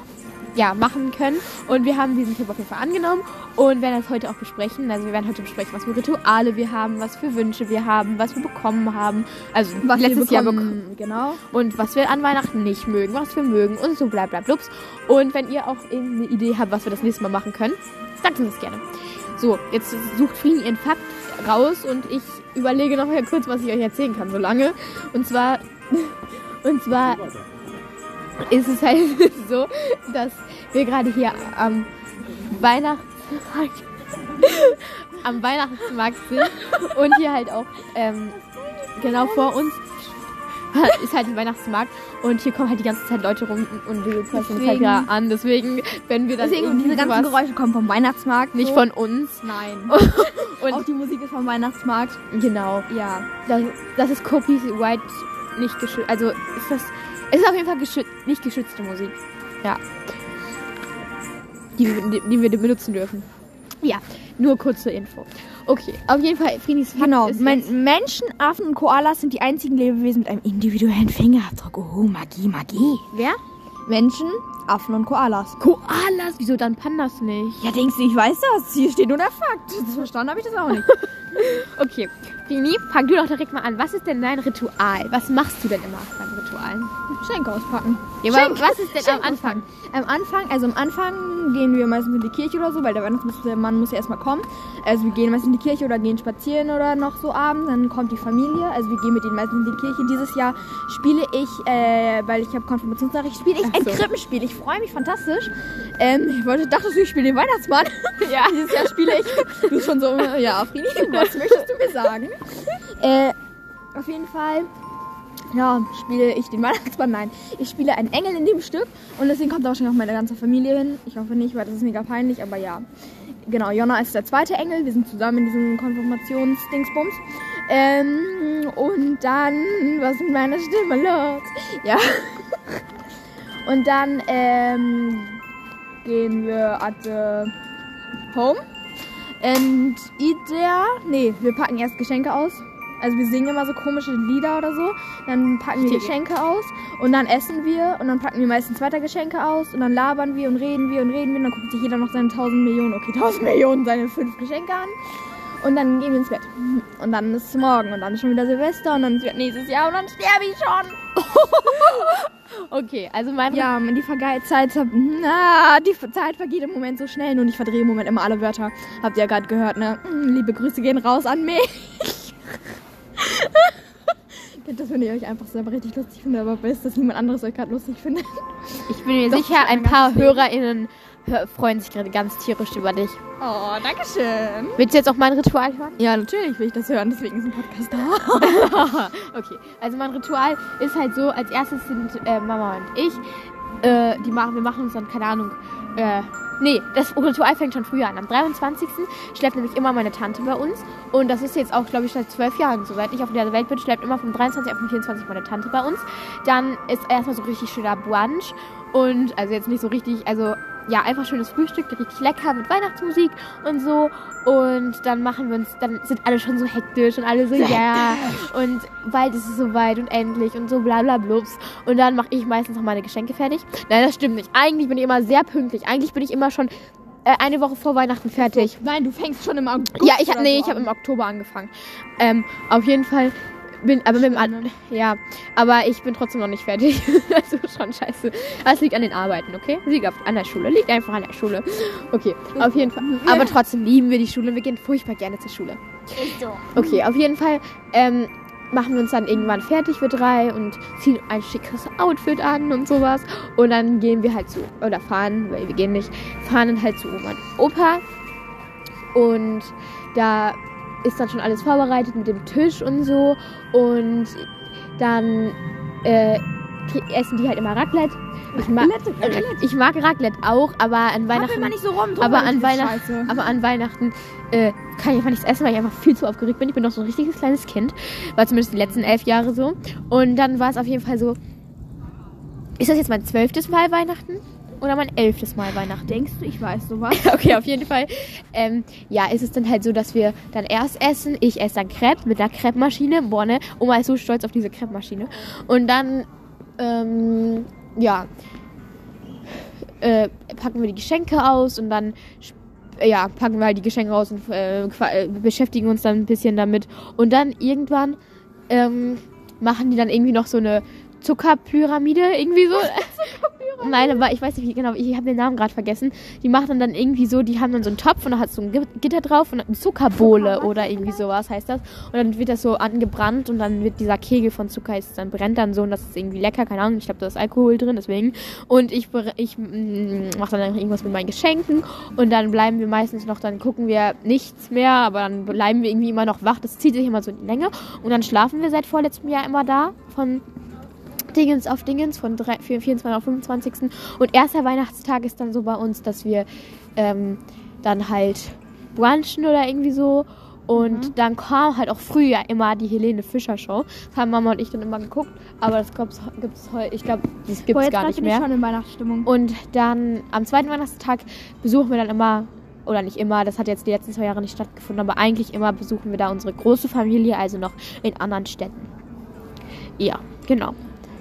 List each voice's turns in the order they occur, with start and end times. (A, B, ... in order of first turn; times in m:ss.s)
0:00.5-0:27.3 A
0:09.8-0:11.4 B
0:28.4-0:31.9 A
0:32.4-0:38.4 A
0:38.7-0:39.5 B
0:39.0-0:40.0 A
0:40.7-0:47.3 A
0:44.3-0:45.1 B
0:46.4-0:48.8 B
0:48.5-0:50.8 A
0:49.4-0:52.2 B
0:52.3-0:52.9 A
0:52.9-0:53.3 B
0:53.4-0:59.8 A
1:01.8-1:03.3 A
1:03.8-1:07.7 A
1:07.0-1:13.1 B
1:13.1-1:13.4 A
1:13.8-1:15.6 B
1:15.6-1:17.6 A
1:17.6-1:20.9 B
1:20.7-1:26.9 A
1:27.1-1:53.4 B
1:28.2-1:29.6 A
1:43.6-1:44.0 A
1:48.2-1:49.9 A
1:51.0-1:51.7 A
1:53.9-1:54.7 B
1:55.5-2:02.8 B
2:03.4-2:12.8 B
2:13.6-2:15.4 B
2:16.0-2:17.5 B
2:18.3-2:18.6 B
2:19.4-2:42.2 B
2:25.8-2:26.1 A
2:41.4-2:43.7 A
2:43.5-2:52.5 B
2:53.2-3:00.4 B
2:58.9-3:03.2 A
3:03.4-3:04.8 B
3:04.8-3:06.0 A
3:06.0-3:08.8 B
3:08.4-3:46.7 A
3:37.6-3:38.4 B
3:47.2-3:48.8 A
3:48.4-3:50.9 B
3:50.0-4:05.8 A
3:54.2-3:54.7 B
4:02.5-4:03.6 B
4:06.2-4:07.0 B
4:06.7-4:18.0 A
4:19.1-4:41.4 A
4:28.5-4:29.7 B
4:31.3-4:33.4 B
4:42.8-4:46.2 A
4:46.1-4:47.4 B
4:47.1-4:56.3 A
4:56.8-4:58.3 A
4:59.6-5:08.2 A
5:08.7-5:40.4 A
5:12.8-5:14.2 B
5:20.1-5:21.2 B
5:41.3-5:58.5 A
5:50.8-5:51.1 B
5:57.7-5:59.3 B
5:59.2-6:08.9 A
6:10.0-6:10.8 A